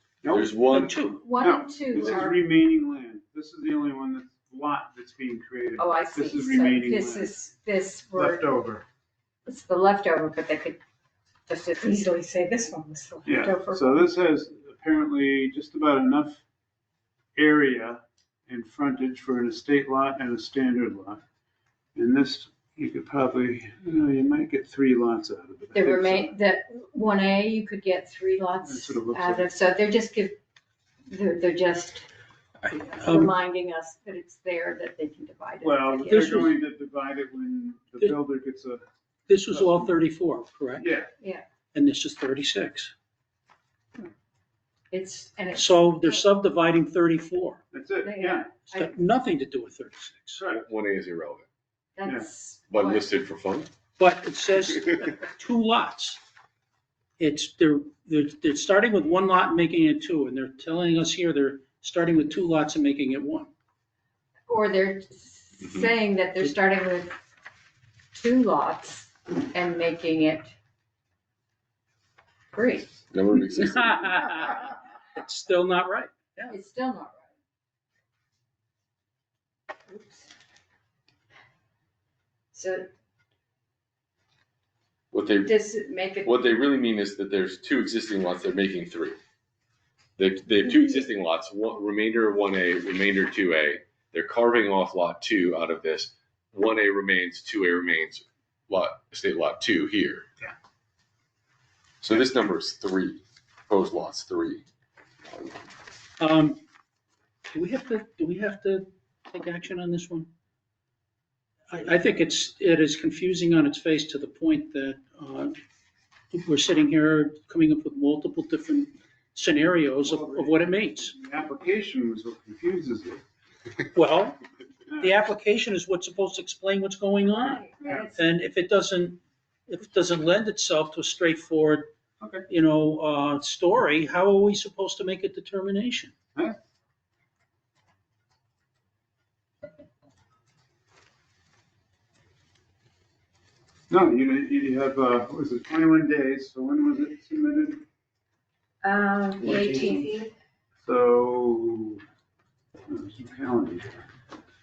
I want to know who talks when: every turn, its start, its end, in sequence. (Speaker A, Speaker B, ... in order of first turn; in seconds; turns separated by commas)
Speaker A: 0.2-7.3, Speaker B: 0.3-0.9, Speaker C: 0.7-1.3, Speaker D: 1.1-2.4, Speaker D: 5.8-8.5, Speaker A: 8.1-8.8, Speaker D: 9.5-10.8, Speaker D: 11.5-14.1, Speaker A: 13.2-16.4, Speaker A: 17.4-21.2, Speaker A: 21.9-26.3, Speaker D: 25.7-30.4, Speaker A: 28.6-29.5, Speaker D: 31.1-32.0, Speaker D: 32.7-36.5, Speaker C: 32.9-33.3, Speaker A: 35.6-38.8, Speaker C: 36.1-36.5, Speaker C: 39.3-40.9, Speaker A: 39.5-39.9, Speaker A: 40.8-41.1, Speaker D: 41.2-41.4, Speaker C: 41.7-42.9, Speaker D: 44.9-46.3, Speaker C: 45.5-47.6, Speaker A: 47.7-48.5, Speaker D: 48.0-48.9, Speaker C: 48.5-50.4, Speaker A: 50.3-50.6, Speaker B: 50.5-51.4, Speaker D: 52.0-53.1, Speaker B: 52.7-53.7, Speaker C: 54.0-56.2, Speaker C: 57.2-63.5, Speaker D: 64.5-67.2, Speaker D: 68.1-70.5, Speaker D: 72.5-72.9, Speaker B: 73.1-74.1, Speaker C: 73.5-76.5, Speaker D: 76.5-77.3, Speaker D: 79.9-80.3, Speaker D: 82.5-82.9, Speaker B: 85.1-85.6, Speaker D: 85.4-86.4, Speaker B: 86.2-89.2, Speaker B: 90.2-100.2, Speaker B: 102.0-104.6, Speaker C: 106.2-106.6, Speaker C: 107.5-110.3, Speaker C: 111.7-115.5, Speaker C: 116.3-121.1, Speaker A: 120.0-123.2, Speaker C: 123.9-124.4, Speaker C: 124.9-131.9, Speaker D: 127.3-128.2, Speaker A: 132.2-132.4, Speaker C: 132.5-136.1, Speaker A: 143.9-147.8, Speaker D: 148.8-150.3, Speaker A: 150.8-152.0, Speaker A: 152.9-154.0